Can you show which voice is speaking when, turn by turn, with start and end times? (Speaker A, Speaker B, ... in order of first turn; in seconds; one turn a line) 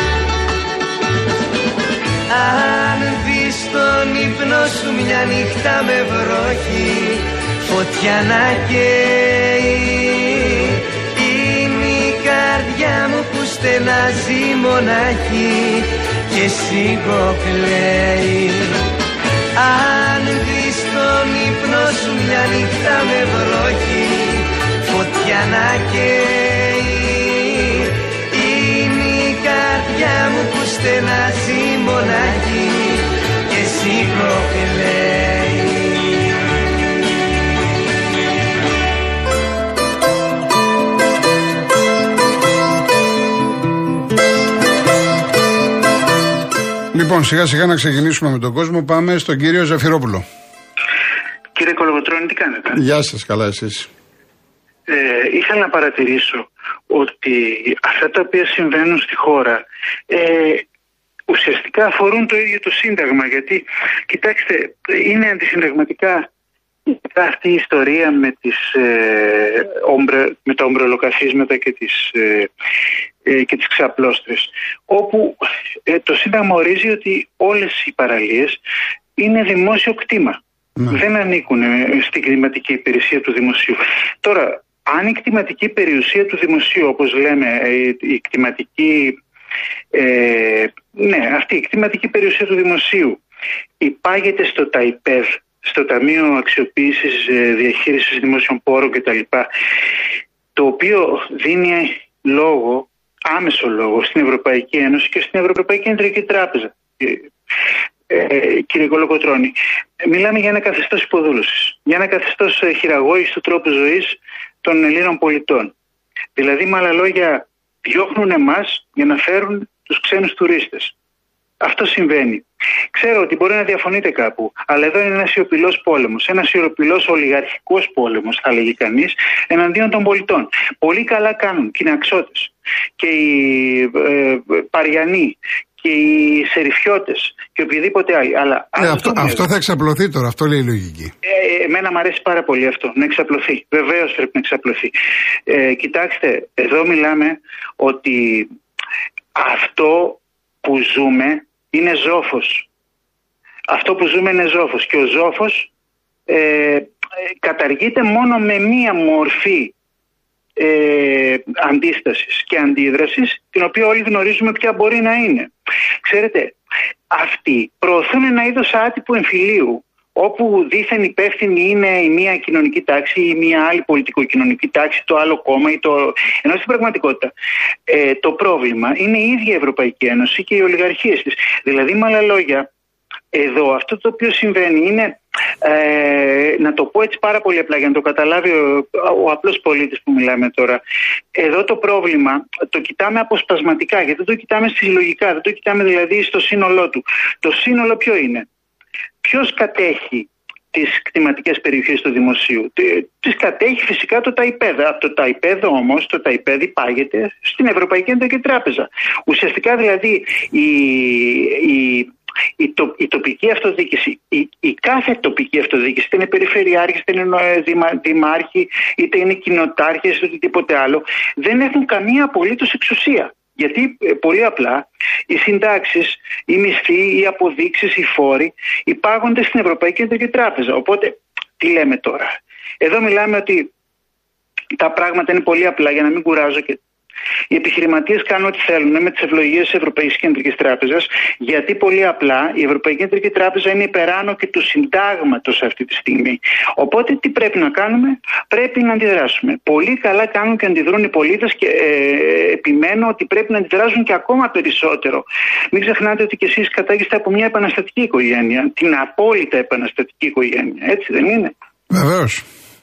Speaker A: 2.3-18.8
Speaker A: 19.6-36.3
Speaker B: 46.9-50.2
Speaker C: 51.5-52.8
Speaker B: 52.7-53.9
Speaker C: 54.9-60.6
Speaker C: 61.3-66.2
Speaker C: 66.9-72.5
Speaker C: 73.2-78.6
Speaker C: 79.2-80.4
Speaker B: 80.8-81.0
Speaker C: 80.9-89.2
Speaker C: 89.9-93.2
Speaker C: 93.8-99.5
Speaker C: 100.5-107.3
Speaker C: 108.1-115.7
Speaker C: 116.3-120.9
Speaker C: 121.6-139.5
Speaker B: 138.8-141.1
Speaker C: 141.2-144.9
Speaker C: 145.5-148.5
Speaker C: 149.3-152.7
Speaker C: 153.7-155.7
Speaker C: 156.3-156.9
Speaker C: 157.4-159.7
Speaker C: 160.6-165.5
Speaker C: 166.0-166.6
Speaker C: 167.1-177.3
Speaker C: 177.9-182.7
Speaker C: 183.3-190.8
Speaker C: 191.3-198.4
Speaker C: 199.2-233.7
Speaker C: 234.8-236.8
Speaker C: 237.5-261.5
Speaker B: 261.9-262.4